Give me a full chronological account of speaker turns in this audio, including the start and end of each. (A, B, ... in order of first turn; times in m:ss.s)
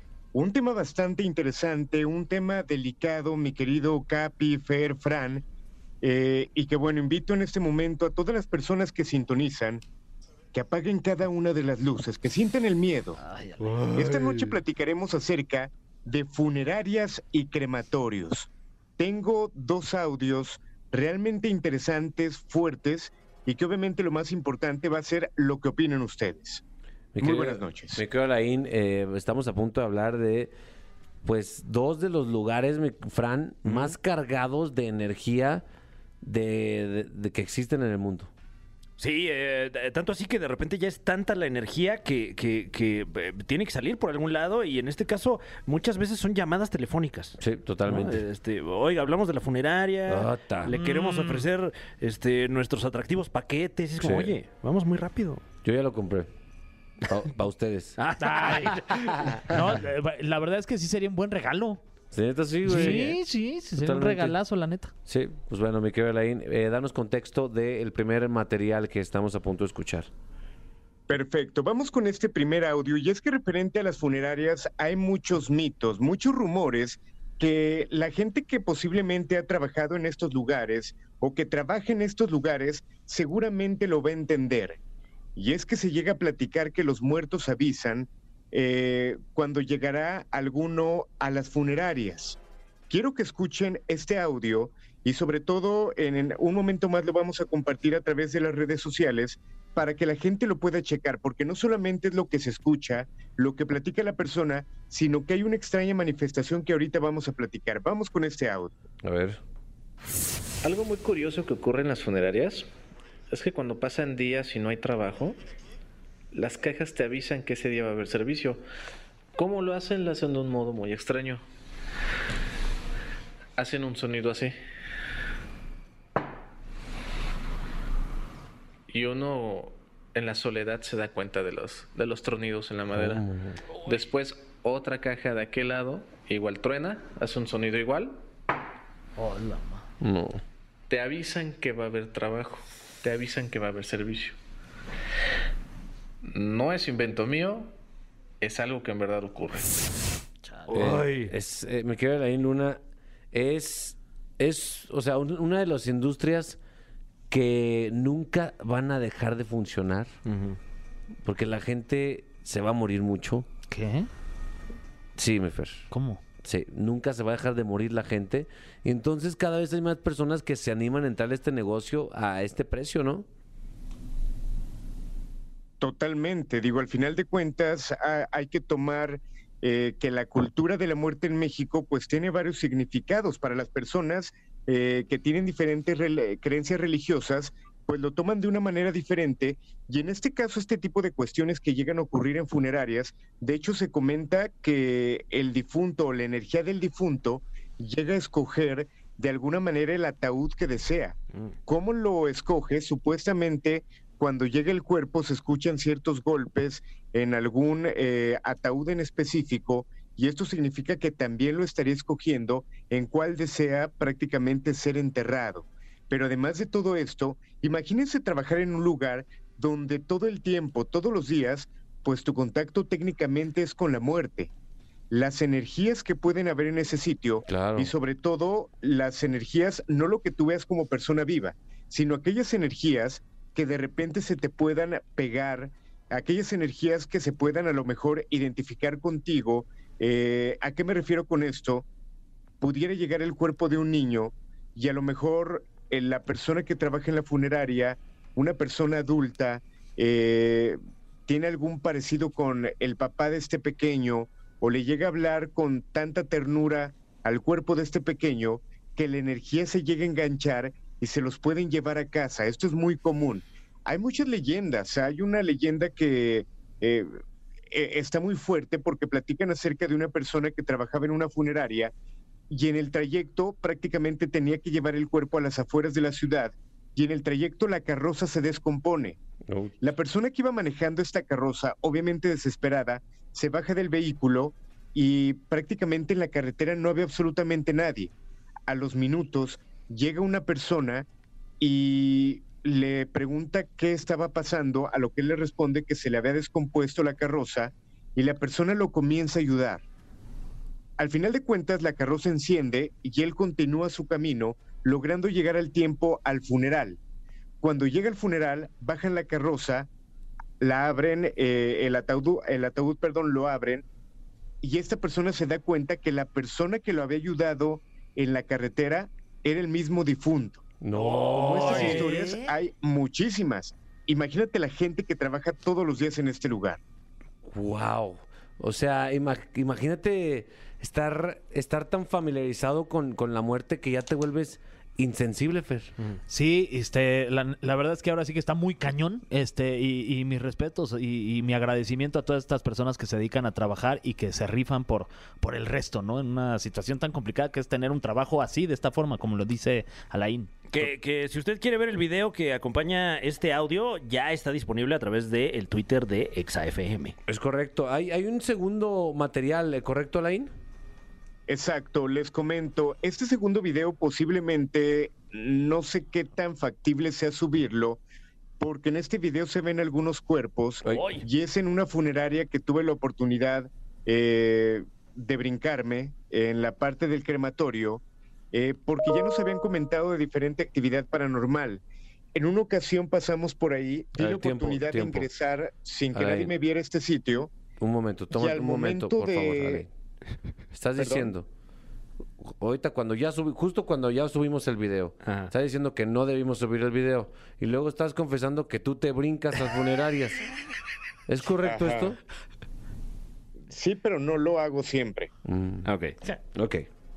0:00.3-0:05.4 A
0:06.0-0:09.8 A
0:10.5-0:13.2 A
0:13.2-0:13.8 B
0:13.6-0:14.4 C
0:13.9-0:26.6 A
0:27.1-0:30.5 D
0:27.2-0:28.0 A
0:31.2-0:35.6 D
0:33.6-0:33.9 C
0:36.2-0:38.3 D
0:39.0-0:55.4 C
0:47.4-0:48.2 D
0:50.1-0:50.8 D
0:50.8-0:51.4 B
0:54.0-0:54.3 D
0:55.6-0:56.3 D
0:57.0-0:59.4 D
0:58.0-0:59.5 C
0:58.2-0:58.8 B
0:59.4-1:01.8 B
1:02.1-1:03.2 D
1:02.6-1:04.9 B
1:03.8-1:04.4 D
1:05.0-1:10.1 D
1:11.1-1:24.8 A
1:25.4-1:48.7 A
1:49.0-1:49.4 D
1:50.6-1:52.7 E
1:53.3-1:55.4 E
1:56.3-1:58.6 E
1:59.4-2:01.4 E
2:03.6-2:04.5 E
2:08.9-2:13.2 E
2:12.9-2:13.6 D
2:13.8-2:18.2 E
2:19.2-2:19.8 B
2:20.0-2:20.4 D
2:20.9-2:24.3 E
2:26.2-2:27.7 E
2:28.4-2:29.8 E
2:30.7-2:31.3 C
2:30.7-2:32.8 D
2:33.3-2:36.6 D
2:37.3-2:40.1 D
2:40.2-2:40.6 C
2:41.2-2:43.5 D
2:43.7-2:44.1 B
2:45.2-2:45.9 D
2:45.9-2:46.2 B
2:46.4-2:53.3 D
2:55.8-3:44.5 A
3:45.1-4:01.8 A
3:47.5-3:47.9 D
4:02.6-4:27.1 A
4:27.7-4:31.9 A
4:32.5-4:39.2 A
4:39.5-4:39.8 D
4:39.8-4:48.1 A
4:48.7-4:51.1 A
4:51.6-4:59.8 A
5:01.0-5:07.0 A
5:07.6-5:09.9 A
5:10.6-5:13.8 A
5:14.6-5:20.6 A
5:20.8-5:22.2 D
5:21.4-5:26.8 A
5:21.4-5:22.4 B
5:21.8-5:22.0 C
5:27.4-5:35.9 D
5:36.3-5:50.6 B
5:50.7-5:57.2 C
5:57.3-6:00.5 D
6:01.5-6:08.0 A
6:08.6-6:21.8 A
6:10.9-6:11.2 C
6:22.3-6:27.5 A
6:24.2-6:25.3 D
6:26.1-6:26.5 D
6:27.8-6:29.9 D
6:28.3-6:29.8 A
6:30.7-6:31.5 D
6:31.0-6:31.3 A
6:32.4-6:40.4 D
6:35.2-6:35.5 C
6:41.3-6:42.2 D
6:41.6-6:42.2 A
6:43.7-6:45.3 A
6:45.4-6:45.9 D
6:45.8-6:46.1 C
6:46.5-6:46.9 D